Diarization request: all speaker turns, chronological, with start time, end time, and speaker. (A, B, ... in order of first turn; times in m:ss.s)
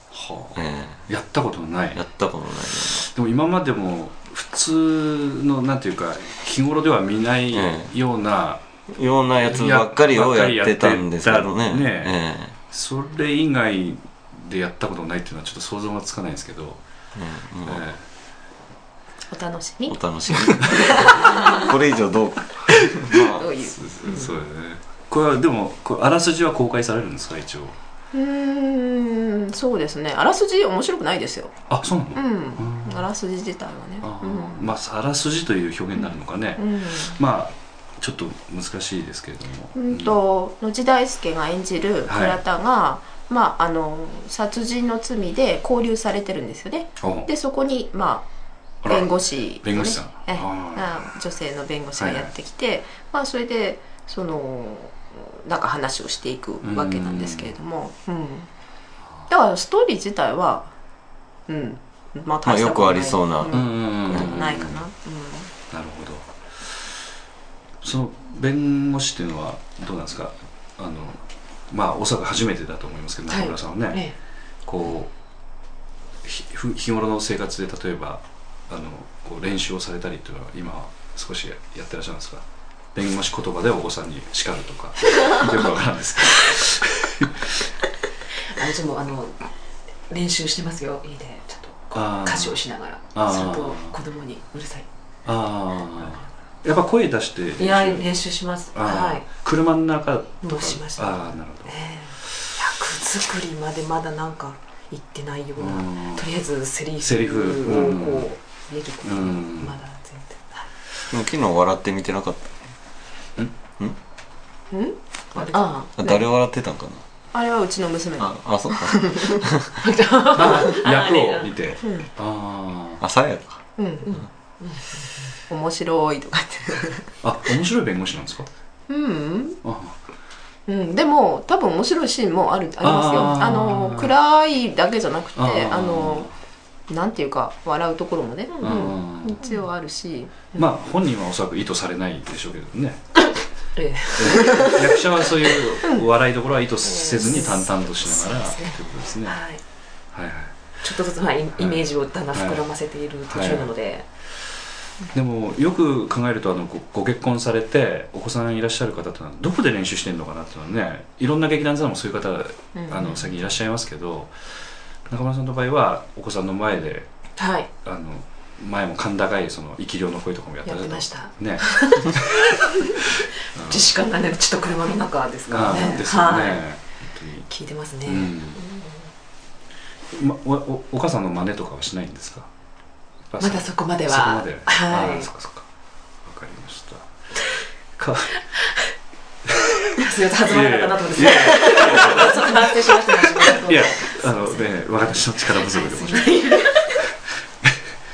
0:00.1-0:02.0 A
0:00.6-0:01.0 B
0:02.0-0:03.0 B
0:03.0-0:08.6 A
0:07.5-0:07.9 B
0:08.9-0:12.5 B
0:09.4-0:16.8 A
0:17.2-0:17.8 B
0:17.6-0:18.0 A
0:19.3-0:20.0 C
0:19.9-0:23.4 B
0:20.6-0:21.7 C
0:20.8-0:21.1 A
0:23.2-0:24.3 C
0:23.6-0:27.8 A
0:28.1-0:31.5 C
0:31.7-0:33.1 A
0:32.1-0:34.7 C
0:34.0-0:40.2 A
0:36.0-0:37.2 C
0:39.8-0:48.3 C
0:42.1-0:42.4 A
0:47.0-0:47.3 A
0:48.8-0:50.9 A
0:48.9-0:58.5 C
0:52.0-0:52.3 A
0:56.6-0:57.5 A
0:59.3-1:00.7 C
1:01.5-1:05.5 C
1:02.4-1:04.3 B
1:03.5-1:04.8 A
1:05.7-1:06.7 A
1:07.8-1:14.1 A
1:13.3-1:14.2 D
1:14.6-1:15.1 A
1:16.2-1:27.5 A
1:28.5-1:29.4 D
1:30.1-1:34.9 D
1:31.9-1:34.0 A
1:35.3-1:38.1 A
1:36.0-1:36.2 D
1:37.6-1:39.3 D
1:38.7-1:41.8 A
1:40.4-1:50.7 D
1:45.6-1:46.3 A
1:47.0-1:48.3 A
1:49.0-1:49.8 A
1:51.1-1:52.6 B
1:54.7-1:56.2 C
1:55.4-1:56.0 D
1:56.0-1:57.0 B
1:57.3-1:59.4 C
1:58.2-1:59.7 B
1:59.8-2:01.5 D
2:00.3-2:03.0 A
2:01.8-2:02.1 C
2:03.0-2:03.6 B
2:03.8-2:04.1 C
2:04.0-2:05.1 D
2:05.5-2:07.0 C
2:07.2-2:08.5 A
2:08.9-2:09.6 C
2:09.6-2:10.0 A
2:10.7-2:16.3 C
2:12.8-2:14.2 A
2:15.4-2:16.3 A
2:16.9-2:20.6 C
2:18.6-2:19.5 A
2:20.5-2:23.0 A
2:23.8-2:25.0 D
2:24.2-2:29.4 A
2:26.9-2:29.6 D
2:30.1-2:30.8 A
2:30.8-2:34.1 D
2:31.6-2:32.7 A
2:33.3-2:33.7 A
2:35.1-2:44.3 A
2:45.1-2:47.1 A
2:47.4-2:47.7 D
2:47.8-2:53.9 A
2:50.6-2:52.1 D
2:53.6-2:56.6 D
2:55.5-2:57.5 A
2:57.5-2:58.9 D
2:58.0-2:58.6 A
3:00.1-3:02.5 A
3:03.3-3:05.7 A
3:03.4-3:05.3 D
3:06.2-3:07.1 A
3:08.0-3:08.4 A
3:10.0-3:17.0 D
3:10.0-3:16.9 A